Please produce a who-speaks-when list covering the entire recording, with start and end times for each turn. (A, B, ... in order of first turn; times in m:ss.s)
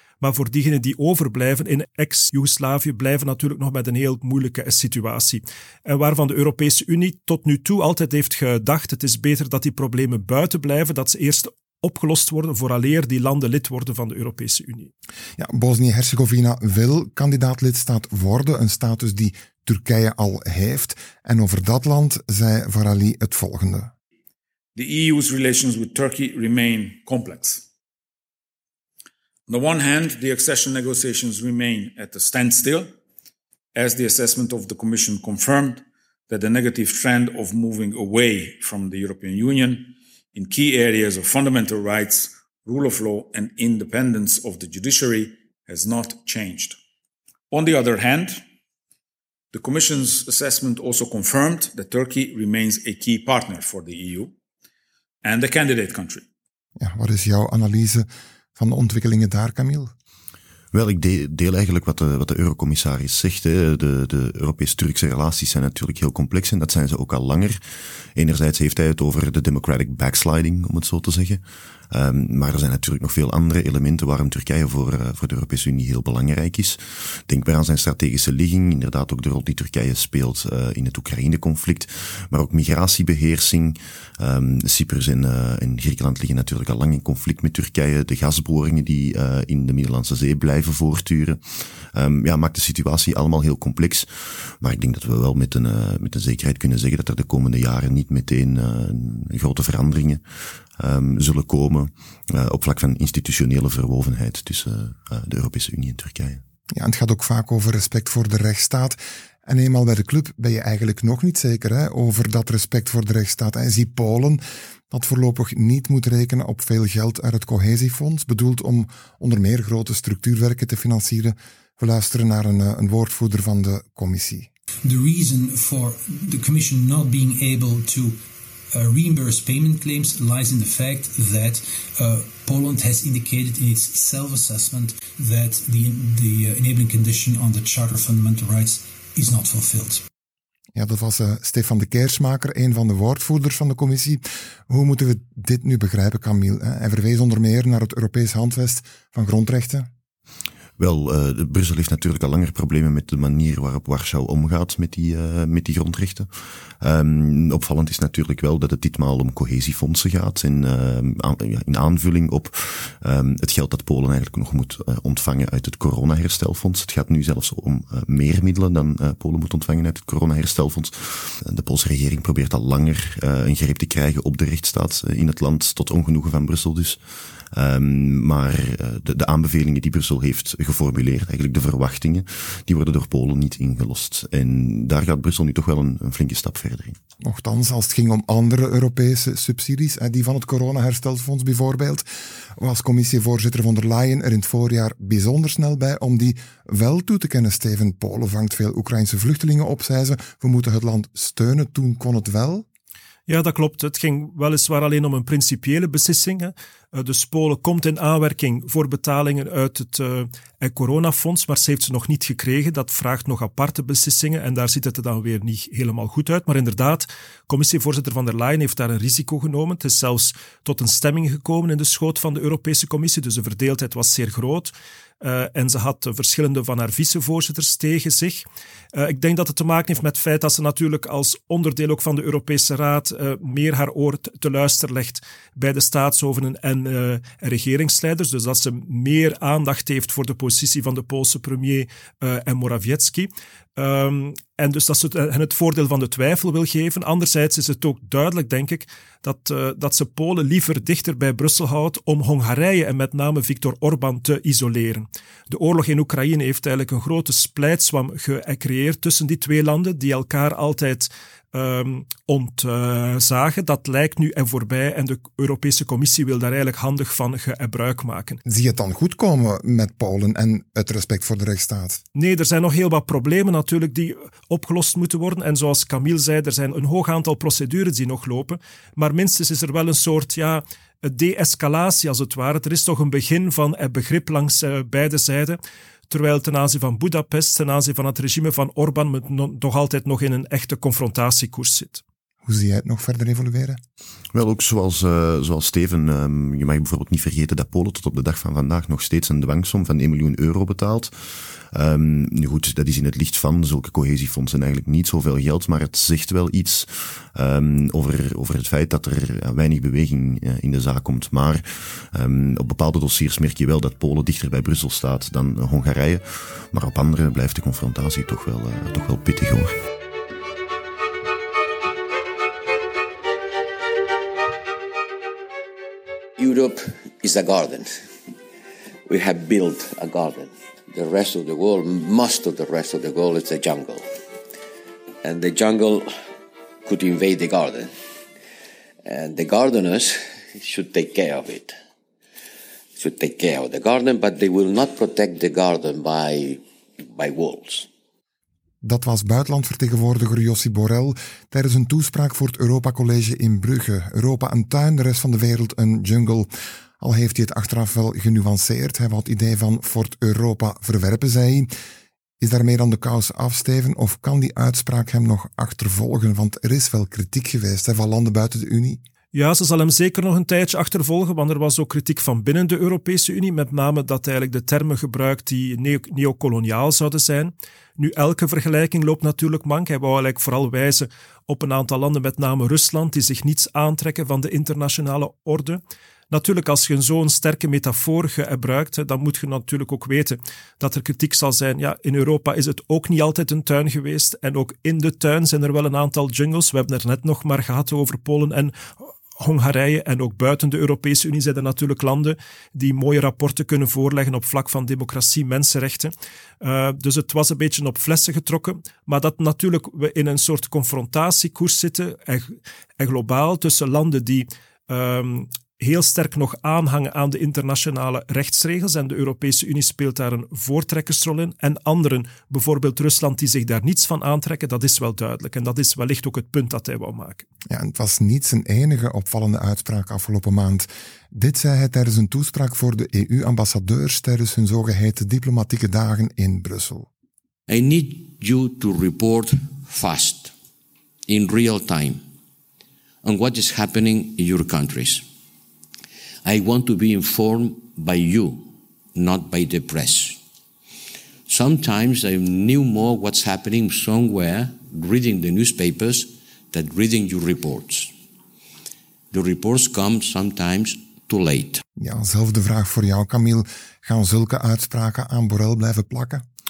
0:00.2-0:14.9 A
0:15.4-0:23.9 B
0:24.8-0:27.6 C
0:29.5-0:32.9 C
0:33.8-0:46.8 C
0:47.5-0:48.4 C
0:49.5-0:54.3 C
0:55.2-0:56.2 C
0:56.8-0:59.9 B
1:00.7-1:07.6 D
1:08.1-1:40.2 D
1:40.8-1:46.4 D
1:46.7-2:04.5 B
2:04.8-2:08.2 E
2:08.7-2:20.0 E
2:20.8-2:29.9 B
2:30.8-2:36.3 D
2:36.8-2:57.0 D
2:57.5-3:07.0 D
3:07.2-3:22.6 B
3:23.3-4:28.4 A
4:28.4-4:32.0 B
4:32.1-4:45.6 A
4:46.1-4:52.0 A
4:52.4-4:53.8 B
4:54.3-5:19.7 D
5:26.4-5:28.0 F
5:29.0-5:34.0 F
5:35.2-5:36.1 F
5:36.8-5:37.9 F
5:39.0-5:41.8 F
5:43.0-5:47.9 F
5:48.8-6:01.7 B
6:02.4-6:09.0 B
6:09.3-7:07.5 A
7:07.7-7:17.1 B
7:17.7-7:20.5 F
7:21.3-7:22.2 F
7:23.2-7:25.3 F
7:26.4-7:30.4 F
7:31.5-7:38.2 F
7:39.3-7:41.8 F
7:42.0-7:46.4 B